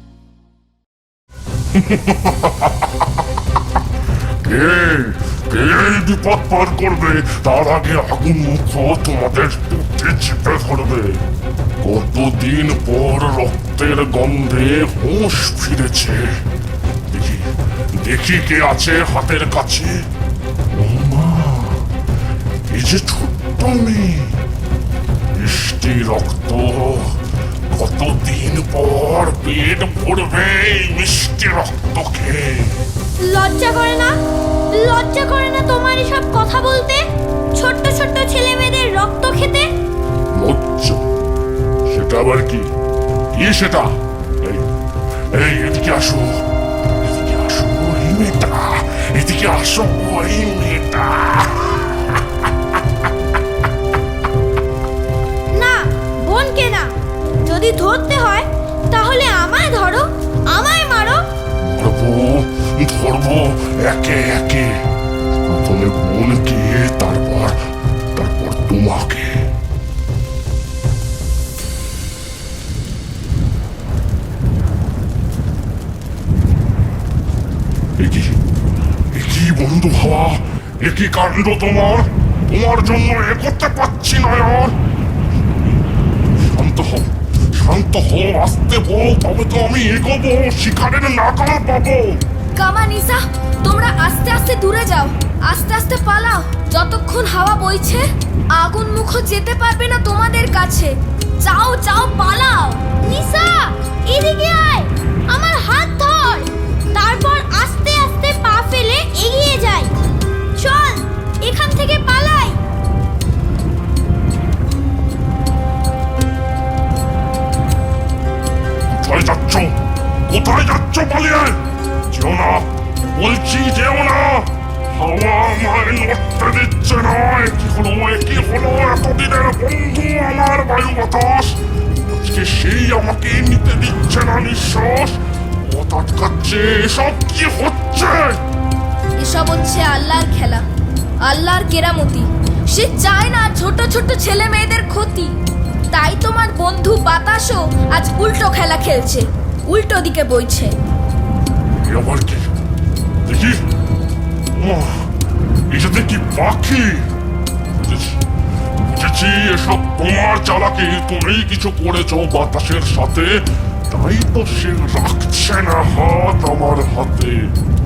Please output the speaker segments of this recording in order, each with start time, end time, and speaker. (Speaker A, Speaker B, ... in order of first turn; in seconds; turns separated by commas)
Speaker A: 4.5-11.0, Speaker A: 11.9-16.2, Speaker A: 18.1-19.9, Speaker A: 20.8-21.7, Speaker A: 22.7-24.2, Speaker A: 25.4-27.0, Speaker A: 27.8-32.4, Speaker B: 33.3-34.2, Speaker B: 34.8-37.0, Speaker B: 37.6-39.7, Speaker A: 40.4-40.9, Speaker A: 41.9-42.6, Speaker A: 43.4-43.8, Speaker A: 45.4-46.3, Speaker A: 47.4-51.5, Speaker B: 55.5-56.9, Speaker B: 57.5-61.2, Speaker A: 61.8-64.6, Speaker A: 65.5-67.5, Speaker A: 68.2-69.2, Speaker A: 79.1-84.7, Speaker A: 86.6-87.0, Speaker A: 87.6-92.1, Speaker C: 92.6-98.0, Speaker C: 98.6-102.8, Speaker B: 103.0-109.9, Speaker B: 110.6-112.6, Speaker A: 119.0-119.6, Speaker A: 120.3-121.5, Speaker A: 122.1-122.6, Speaker A: 123.2-124.5, Speaker A: 125.0-131.5, Speaker A: 132.2-135.1, Speaker A: 135.7-138.3, Speaker C: 139.2-140.7, Speaker C: 141.2-145.3, Speaker C: 145.9-150.7, Speaker A: 151.9-152.4, Speaker A: 154.6-154.9, Speaker A: 155.7-156.9, Speaker A: 158.9-163.2, Speaker A: 163.9-167.3